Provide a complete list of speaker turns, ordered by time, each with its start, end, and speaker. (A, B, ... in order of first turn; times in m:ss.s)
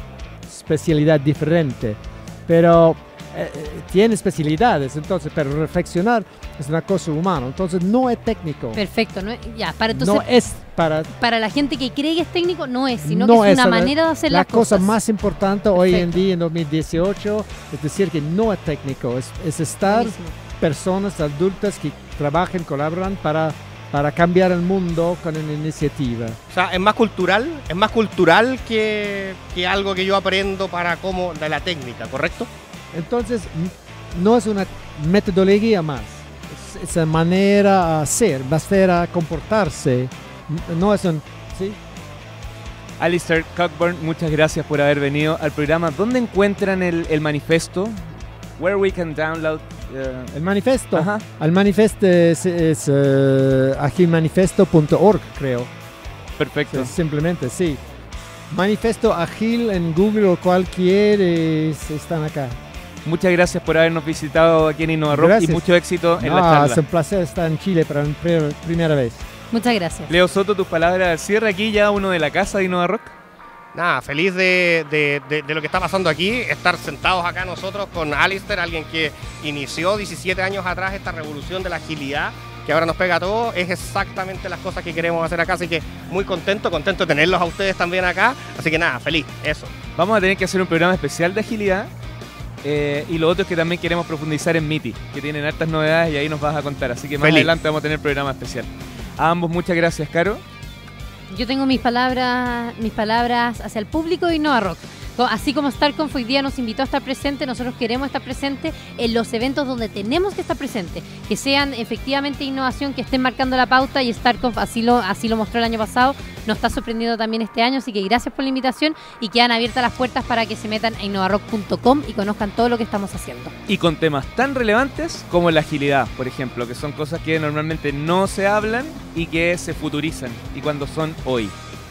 0:00.5-0:08.8 A
0:08.7-0:10.2 B
0:09.9-0:11.1 A
0:11.1-0:14.9 B
0:13.0-0:26.4 A
0:15.7-0:16.2 B
0:19.8-0:20.3 B
0:26.5-0:32.5 C
0:32.9-0:41.8 A
0:43.0-0:50.4 D
0:50.3-0:55.7 A
0:50.9-0:51.2 D
0:56.4-0:56.9 D
0:56.7-0:57.8 A
0:58.5-1:02.6 A
1:03.0-1:06.8 D
1:05.1-1:05.6 A
1:06.2-1:09.2 A
1:09.5-1:10.1 B
1:10.1-1:13.1 D
1:13.7-1:29.7 C
1:30.0-1:31.9 D
1:32.6-1:40.4 D
1:37.2-1:37.5 C
1:41.3-2:03.5 B
2:03.7-2:11.5 D